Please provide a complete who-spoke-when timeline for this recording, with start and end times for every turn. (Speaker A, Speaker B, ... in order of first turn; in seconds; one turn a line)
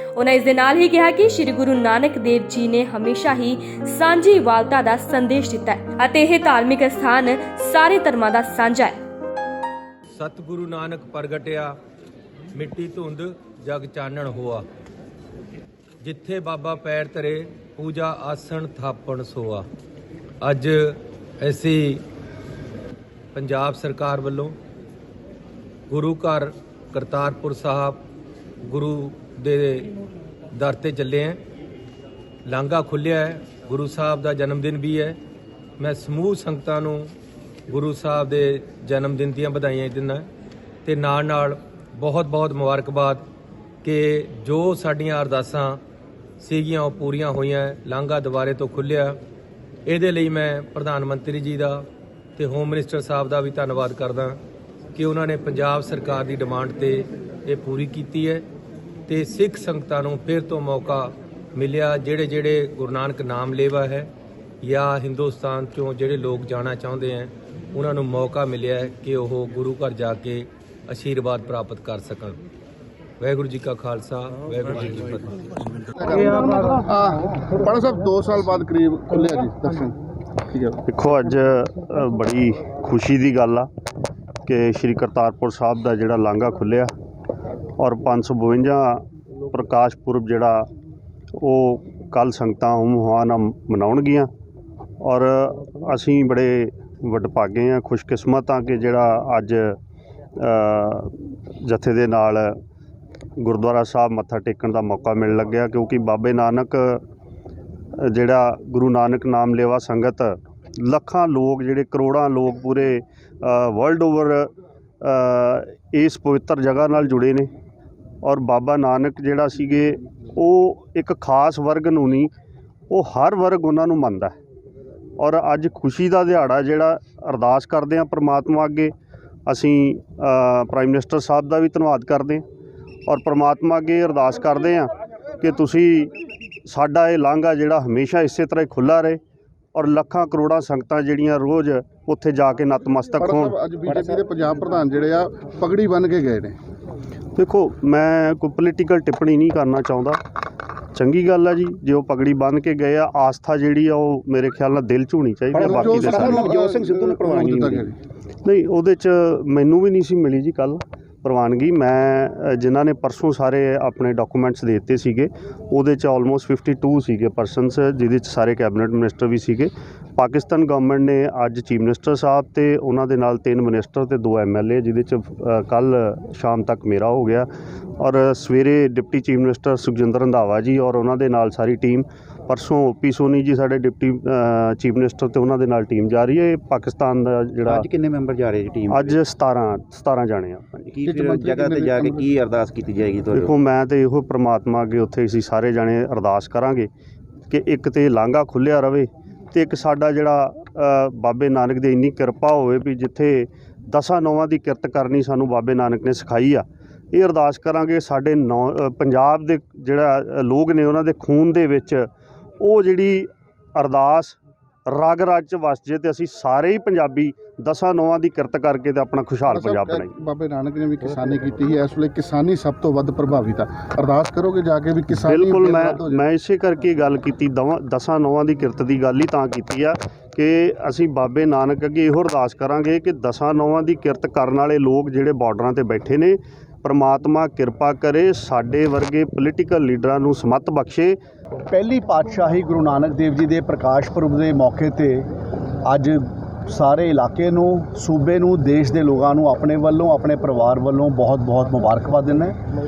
Speaker A: 0.2-9.0
Speaker B: 10.1-11.8
Speaker B: 12.5-14.7
Speaker B: 16.0-19.7
Speaker B: 20.4-22.0
Speaker B: 23.3-24.6
Speaker B: 25.9-28.0
Speaker B: 28.6-29.9
Speaker B: 30.5-31.4
Speaker B: 32.5-35.2
Speaker B: 35.8-37.1
Speaker B: 37.7-40.3
Speaker B: 40.8-43.2
Speaker B: 43.8-45.8
Speaker B: 46.4-49.2
Speaker B: 49.9-54.4
Speaker B: 54.9-58.5
Speaker B: 59.1-64.1
Speaker B: 64.6-72.4
Speaker B: 73.2-75.3
Speaker C: 76.0-80.0
Speaker C: 80.5-80.8
Speaker D: 80.9-83.7
Speaker D: 84.4-86.9
Speaker D: 87.8-90.7
Speaker D: 91.4-94.3
Speaker D: 95.0-99.8
Speaker D: 100.4-102.5
Speaker D: 103.4-107.0
Speaker D: 108.0-114.5
Speaker D: 115.0-117.5
Speaker D: 118.2-122.3
Speaker D: 122.9-124.3
Speaker D: 125.2-128.9
Speaker D: 129.5-132.4
Speaker D: 133.1-136.1
Speaker D: 136.7-139.2
Speaker D: 139.7-143.6
Speaker C: 143.2-146.6
Speaker D: 147.3-150.2
Speaker D: 150.9-156.4
Speaker E: 155.5-157.9
Speaker C: 155.6-157.9
Speaker D: 158.4-177.5
Speaker D: 178.0-187.9
Speaker E: 187.7-189.2
Speaker D: 188.8-191.1
Speaker E: 190.9-193.5
Speaker C: 191.0-192.3
Speaker D: 193.3-196.9
Speaker D: 197.5-212.1
Speaker D: 212.6-214.4
Speaker D: 214.9-220.1
Speaker C: 219.4-226.2
Speaker D: 225.2-241.2
Speaker F: 241.7-245.3
Speaker F: 245.8-252.6